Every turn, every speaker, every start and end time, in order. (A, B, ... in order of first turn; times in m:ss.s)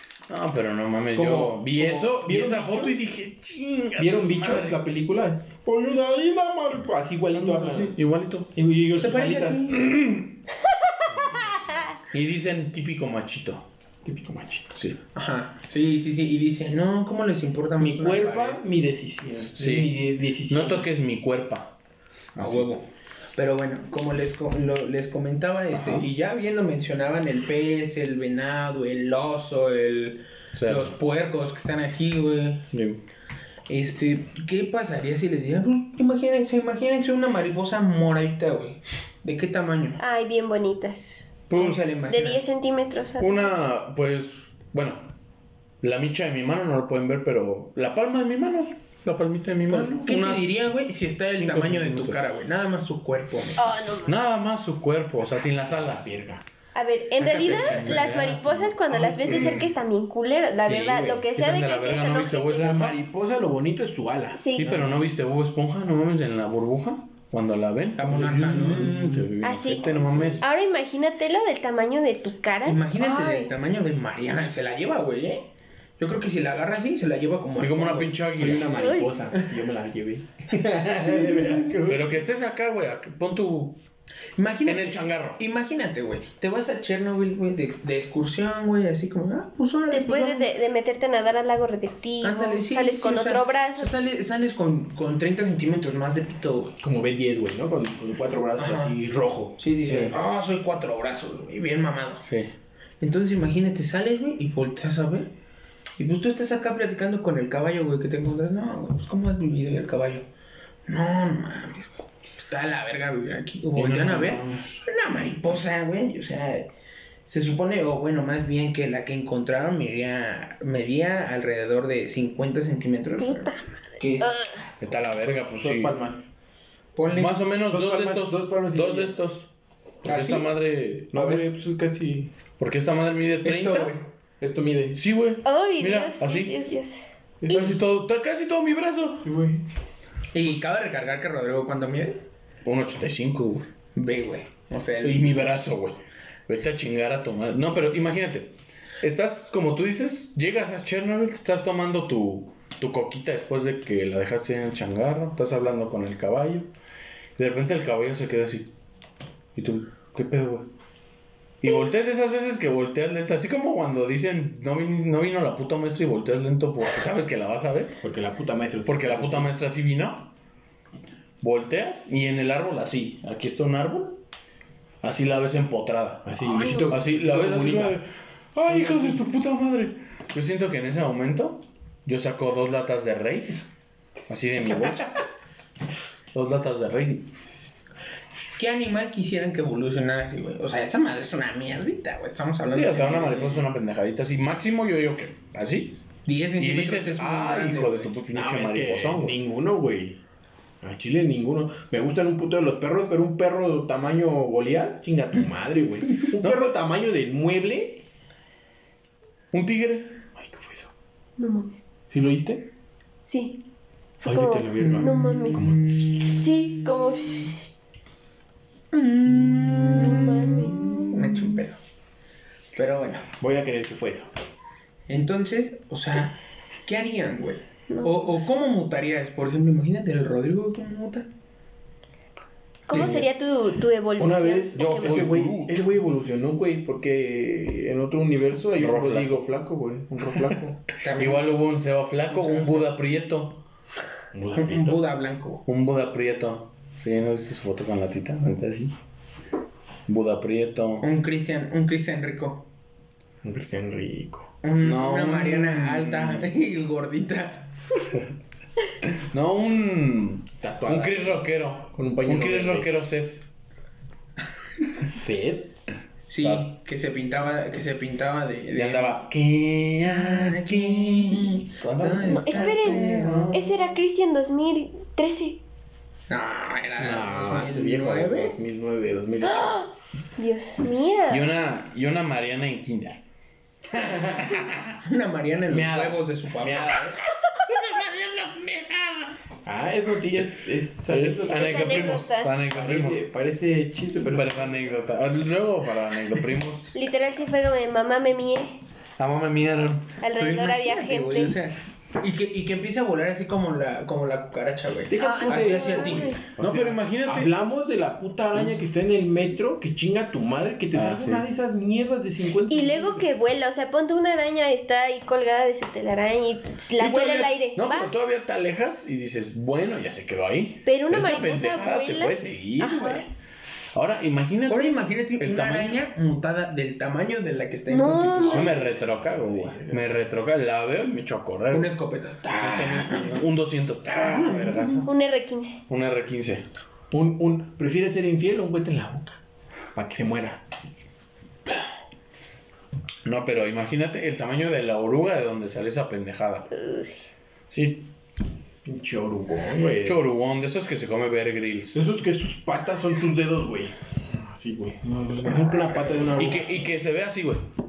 0:00.3-0:04.8 A
0:01.1-0:03.0 B
0:04.0-0:08.0 B
0:07.3-0:08.5 A
0:08.5-0:09.7 B
0:09.0-0:09.8 C
0:09.7-0:10.3 A
0:11.1-0:13.6 A
0:14.0-0:14.7 B
0:15.1-0:18.6 C
0:17.8-0:20.9 B
0:19.5-0:21.7 A
0:22.4-0:22.7 A
0:22.4-0:32.6 C
0:25.7-0:26.1 A
0:30.5-0:30.9 A
0:32.7-0:33.0 A
0:33.7-0:40.0 C
0:40.0-0:41.3 D
0:41.5-0:41.9 A
0:41.5-0:42.4 C
0:42.1-0:43.6 D
0:43.2-0:45.0 A
0:45.8-0:50.5 A
0:49.7-0:53.7 C
0:51.3-0:52.2 A
0:53.6-0:54.2 D
0:54.0-0:56.1 A
0:55.2-0:56.4 B
0:56.7-1:02.8 D
0:57.2-0:59.7 A
0:57.4-0:58.0 B
1:00.6-1:01.2 B
1:01.3-1:03.0 A
1:02.5-1:05.0 B
1:04.3-1:04.6 D
1:04.6-1:10.4 A
1:08.0-1:09.2 C
1:09.4-1:09.9 D
1:09.9-1:10.4 B
1:10.4-1:13.5 D
1:12.6-1:15.5 C
1:16.0-1:18.2 C
1:17.6-1:18.8 A
1:18.3-1:22.2 B
1:18.7-1:19.1 D
1:21.8-1:23.8 A
1:24.4-1:30.5 C
1:24.6-1:25.4 A
1:29.9-1:33.9 D
1:32.2-1:36.8 C
1:36.8-1:39.6 B
1:38.6-1:38.9 C
1:39.6-1:42.2 C
1:39.9-1:40.1 A
1:42.2-1:42.5 A
1:43.0-1:45.3 C
1:46.0-1:50.2 C
1:50.9-1:56.7 C
1:53.7-1:54.8 A
1:57.3-2:04.4 C
2:03.2-2:03.6 D
2:04.2-2:04.6 D
2:04.8-2:06.0 A
2:05.6-2:06.3 B
2:07.0-2:07.4 C
2:07.1-2:09.5 A
2:07.6-2:09.2 B
2:10.0-2:11.4 A
2:10.0-2:10.5 C
2:11.1-2:12.3 B
2:12.6-2:13.9 A
2:13.4-2:14.1 C
2:14.4-2:15.0 B
2:14.9-2:16.6 A
2:15.4-2:17.6 D
2:17.4-2:17.8 B
2:17.5-2:19.3 A
2:19.2-2:19.6 B
2:20.3-2:22.2 C
2:22.6-2:23.7 A
2:23.9-2:25.5 C
2:25.0-2:36.7 A
2:37.4-2:38.7 A
2:39.5-2:40.7 A
2:41.6-2:48.0 A
2:48.0-2:49.5 B
2:48.8-2:50.3 A
2:51.4-2:54.2 A
2:55.0-3:03.6 A
2:56.2-2:58.0 B
2:56.6-2:56.8 D
2:58.7-2:59.3 B
3:04.3-3:05.1 A
3:06.3-3:07.3 A
3:08.6-3:13.6 C
3:12.7-3:16.0 A
3:16.2-3:18.1 C
3:16.6-3:19.4 A
3:18.3-3:20.2 B
3:20.8-3:28.0 B
3:26.4-3:26.7 A
3:29.5-3:30.2 A
3:30.4-3:30.9 B
3:31.4-3:31.8 D
3:32.1-3:32.6 B
3:33.2-3:33.6 D
3:34.2-3:37.5 D
3:34.2-3:36.2 B
3:34.8-3:36.4 C
3:38.9-3:41.8 C
3:39.8-3:41.2 D
3:42.7-3:43.2 C
3:43.4-3:44.3 B
3:45.1-3:51.3 C
3:52.9-3:55.2 D
3:52.9-3:53.2 B
3:54.2-4:00.8 B
3:54.7-3:55.8 A
3:58.8-3:59.4 A
4:01.0-4:01.5 C
4:01.2-4:03.6 A
4:02.3-4:02.8 C
4:04.3-4:05.0 B
4:04.5-4:05.6 C
4:05.6-4:08.9 A
4:10.1-4:11.0 A
4:11.0-4:12.6 C
4:13.4-4:14.5 B
4:14.6-4:17.7 C
4:14.8-4:16.5 A
4:19.0-4:23.4 A
4:20.6-4:22.9 B
4:25.1-4:25.7 B
4:26.3-4:29.2 C
4:28.7-4:33.8 A
4:30.0-4:33.5 C
4:32.3-4:35.6 D
4:33.1-4:33.5 B
4:36.3-4:38.5 C
4:37.0-4:39.8 B
4:39.4-4:39.8 D
4:40.4-4:41.5 D
4:41.3-4:43.2 A
4:43.9-4:44.6 B
4:44.4-4:45.0 A
4:45.0-4:47.1 C
4:45.7-4:47.2 B
4:47.5-4:49.3 A
4:49.6-4:54.8 B
4:51.1-4:53.2 A
4:51.5-4:52.5 D
4:54.2-4:56.9 A
4:56.9-4:58.8 D
4:59.2-5:00.1 A
5:00.2-5:01.6 D
5:00.4-5:06.3 C
5:05.1-5:13.3 B
5:05.2-5:06.5 D
5:06.6-5:07.5 A
5:10.9-5:11.4 A
5:12.7-5:18.1 D
5:17.0-5:23.3 A
5:20.8-5:23.2 D
5:23.9-5:26.0 A
5:24.7-5:28.8 C
5:27.9-5:28.7 D
5:28.4-5:31.9 A
5:28.5-5:30.4 B
5:31.7-5:33.4 C
5:32.5-5:35.1 A
5:34.2-5:35.0 C
5:35.0-5:35.8 D
5:35.9-5:36.6 A
5:37.1-5:39.4 B
5:39.9-5:40.6 B
5:43.2-5:46.7 A
5:46.7-5:47.2 D
5:47.7-5:48.1 A
5:48.8-5:50.2 B
5:50.0-5:52.0 A
5:51.9-5:56.9 B
5:55.5-5:56.6 C
5:56.4-5:57.6 A